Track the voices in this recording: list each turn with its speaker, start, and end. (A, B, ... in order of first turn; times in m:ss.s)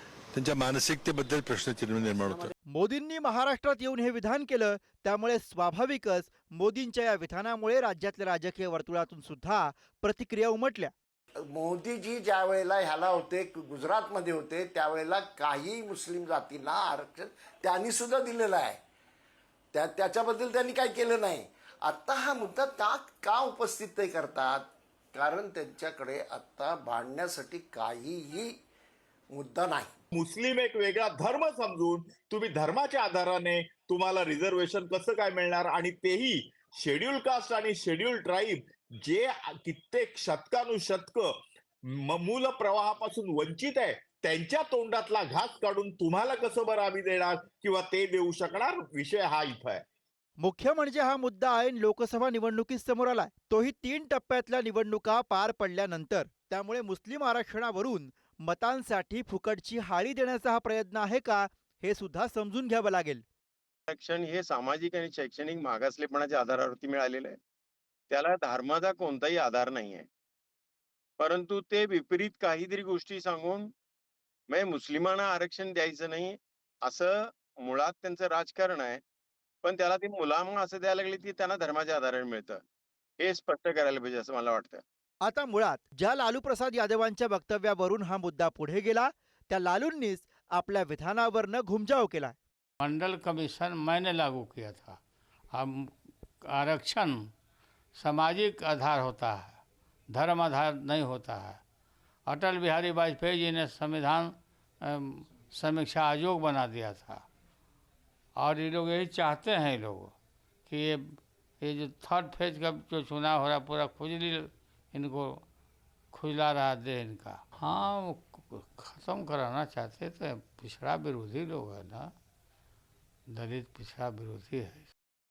0:00.3-0:02.5 A
0:02.7-0:10.9 B
0:11.5-0:18.8 C
0:19.7-0:28.6 C
0:29.3-0:29.9 C
0:30.1-0:41.3 D
0:42.0-0:49.8 D
0:50.4-1:03.2 B
1:03.9-1:07.4 E
1:08.1-1:10.1 E
1:11.2-1:13.7 E
1:14.5-1:19.0 E
1:19.6-1:22.6 E
1:23.2-1:24.8 E
1:25.2-1:32.4 B
1:32.8-1:35.0 F
1:35.5-1:35.9 F
1:36.4-1:37.3 F
1:38.0-1:41.6 F
1:42.3-1:47.2 F
1:48.4-1:55.4 F
1:56.1-2:02.1 F
2:03.3-2:04.9 F